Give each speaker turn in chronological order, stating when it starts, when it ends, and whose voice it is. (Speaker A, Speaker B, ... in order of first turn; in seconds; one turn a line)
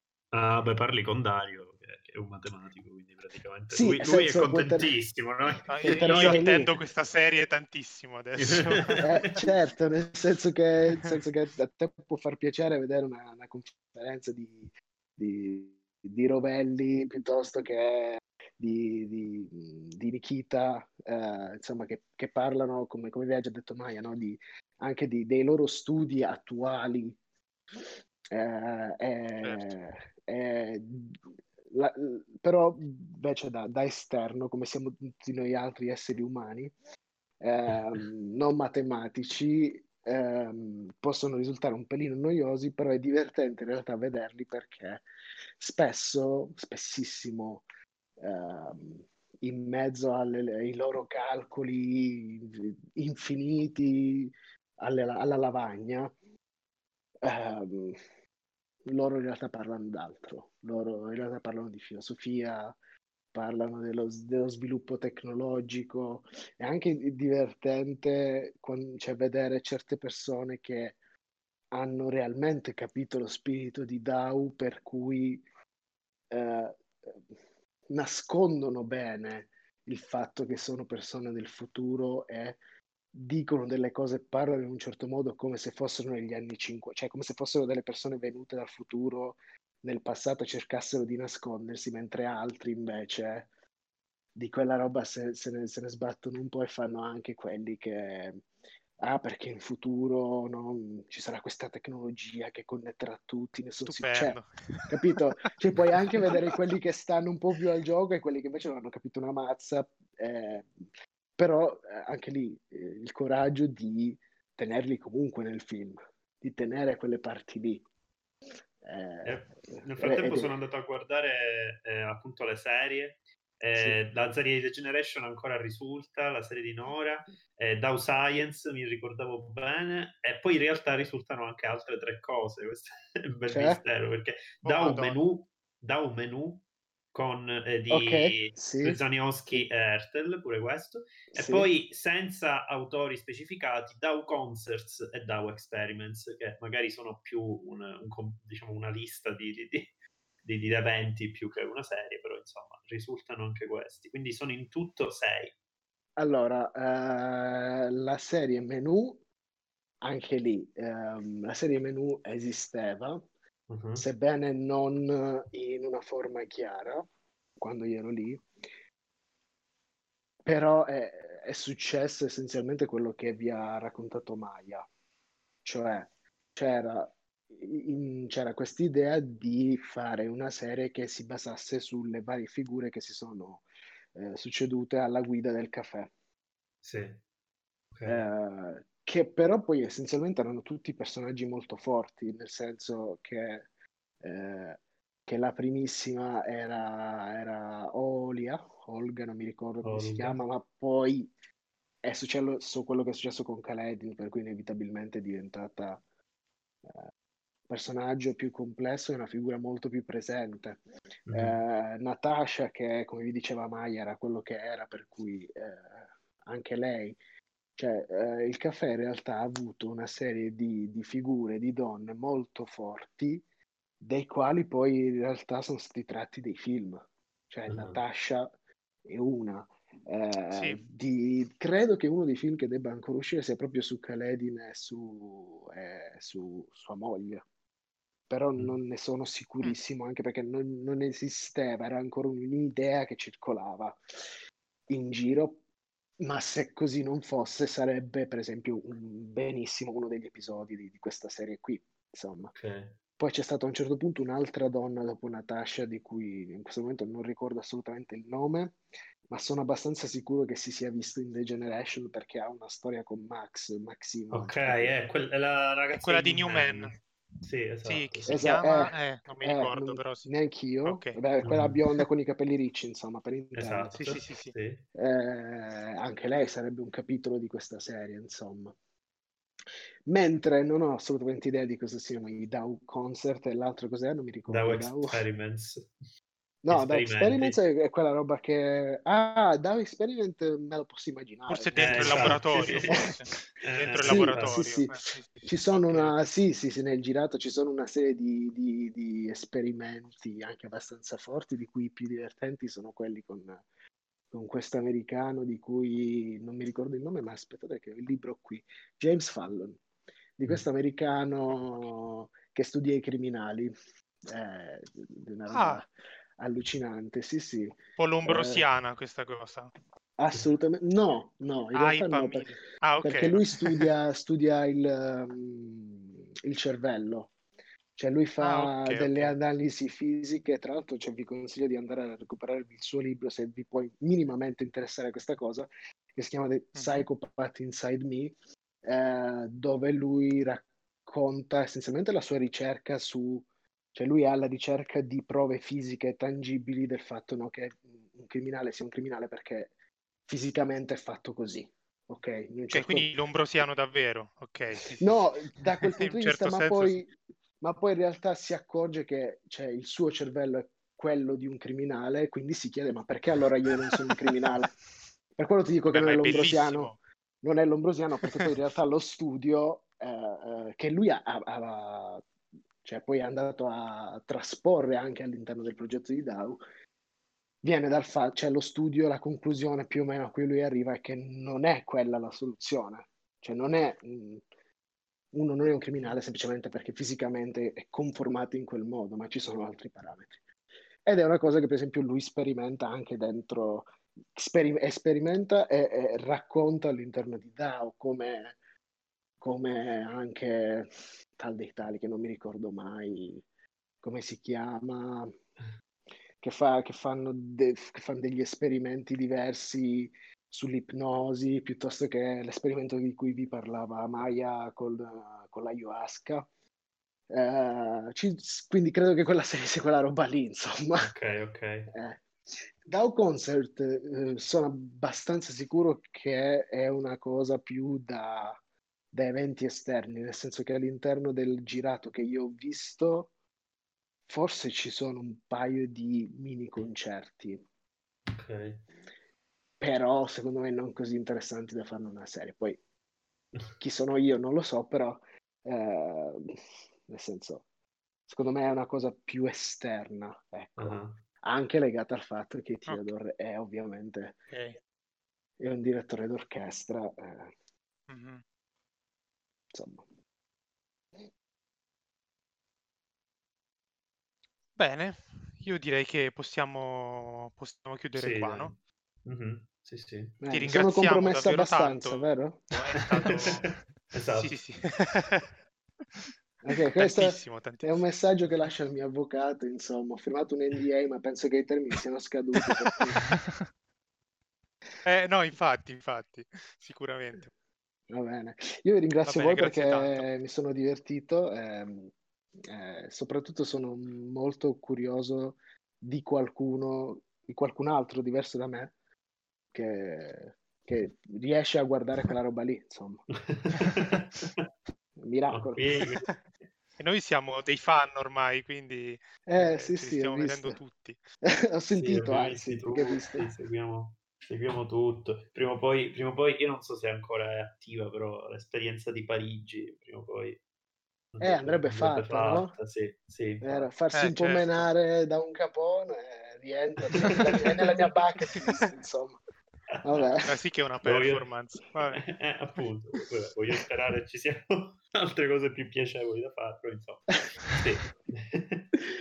Speaker A: 0.3-6.4
Speaker B: 3.7-4.9
Speaker C: 5.7-9.1
Speaker B: 5.8-6.7
Speaker A: 8.4-9.4
Speaker B: 9.0-27.2
Speaker B: 27.8-31.2
Speaker C: 29.4-29.8
Speaker B: 31.7-36.7
Speaker B: 37.4-45.0
Speaker B: 45.6-47.6
Speaker B: 48.2-56.1
Speaker B: 57.2-58.0
Speaker B: 58.9-62.8
Speaker B: 63.3-71.0
Speaker B: 71.7-75.4
Speaker B: 76.3-77.2
Speaker B: 77.9-82.6
Speaker B: 83.1-93.5
Speaker B: 94.3-98.4
Speaker B: 99.0-110.7
Speaker C: 103.8-105.2
Speaker C: 105.9-106.4
Speaker B: 111.4-117.8
Speaker B: 118.8-120.5
Speaker A: 119.2-149.9
Speaker B: 123.7-124.0
Speaker B: 133.5-133.8
Speaker C: 134.6-135.2
Speaker B: 137.9-139.6
Speaker B: 141.3-141.7
Speaker A: 150.4-155.5
Speaker B: 156.2-159.2
Speaker B: 160.0-163.2
Speaker A: 163.7-164.0
Speaker B: 163.9-167.1
Speaker B: 167.6-168.4
Speaker B: 170.4-174.8
Speaker B: 175.6-186.1
Speaker A: 186.8-187.2
Speaker A: 187.9-188.2
Speaker B: 188.0-193.7
Speaker B: 194.2-201.3
Speaker A: 199.8-200.4
Speaker B: 202.0-206.0
Speaker B: 206.8-207.1
Speaker B: 207.7-210.8
Speaker A: 211.3-211.6
Speaker B: 211.3-217.2
Speaker B: 217.8-223.4
Speaker B: 224.0-228.5
Speaker A: 227.7-228.0
Speaker B: 229.0-237.4
Speaker C: 230.5-230.8
Speaker B: 238.3-244.0
Speaker B: 244.9-245.6
Speaker B: 246.2-252.5
Speaker A: 252.5-252.9
Speaker B: 253.2-258.8
Speaker B: 259.3-264.9
Speaker A: 264.3-268.5
Speaker C: 265.9-267.0
Speaker C: 267.8-270.3
Speaker B: 268.3-274.0
Speaker C: 270.8-271.2
Speaker A: 271.4-271.8
Speaker A: 273.5-274.8
Speaker C: 273.9-274.5
Speaker B: 274.9-278.8
Speaker B: 280.1-285.2
Speaker A: 284.5-285.9
Speaker B: 286.6-293.1
Speaker A: 286.7-287.6
Speaker C: 291.5-296.2
Speaker A: 291.7-293.0
Speaker A: 293.6-294.6
Speaker B: 294.0-303.6
Speaker B: 304.3-309.8
Speaker B: 310.4-313.7
Speaker B: 314.3-318.6
Speaker C: 315.5-315.8
Speaker C: 318.0-319.7
Speaker B: 320.2-327.3
Speaker C: 321.7-323.9
Speaker B: 327.9-349.7
Speaker C: 328.4-329.4
Speaker C: 336.7-337.1
Speaker B: 350.2-353.1
Speaker C: 352.7-357.0
Speaker B: 355.0-364.7
Speaker B: 365.4-372.2
Speaker C: 365.9-366.9
Speaker B: 372.8-376.6
Speaker B: 377.6-384.4
Speaker B: 385.3-390.4
Speaker B: 391.0-398.6
Speaker B: 399.4-403.4
Speaker B: 404.0-405.4
Speaker B: 406.4-416.5
Speaker B: 417.3-421.1
Speaker A: 421.0-421.9
Speaker B: 421.9-428.6
Speaker B: 429.1-433.3
Speaker B: 434.3-437.6
Speaker A: 438.3-438.8
Speaker B: 439.8-442.8
Speaker B: 443.8-447.6
Speaker B: 448.3-454.4
Speaker A: 450.8-451.2
Speaker C: 454.5-454.8
Speaker B: 455.6-457.5
Speaker C: 458.1-458.4
Speaker B: 459.7-460.0
Speaker C: 464.8-468.7
Speaker A: 468.1-470.4
Speaker B: 470.4-472.6
Speaker C: 470.5-475.5
Speaker A: 473.0-474.5
Speaker C: 476.2-478.1
Speaker B: 476.6-483.2
Speaker C: 485.0-487.5
Speaker B: 488.1-498.9
Speaker C: 489.2-490.3
Speaker B: 499.7-503.2
Speaker A: 503.5-504.7
Speaker B: 505.2-505.8
Speaker A: 505.5-506.4
Speaker C: 507.0-511.2
Speaker B: 509.5-510.8
Speaker B: 511.4-513.5
Speaker A: 511.9-520.6
Speaker A: 521.3-523.9
Speaker B: 521.4-522.7
Speaker B: 523.6-529.4
Speaker C: 524.1-524.9
Speaker A: 527.1-527.6
Speaker A: 529.9-530.2
Speaker B: 530.0-530.5
Speaker C: 530.5-532.2
Speaker A: 531.0-531.5
Speaker A: 532.1-538.9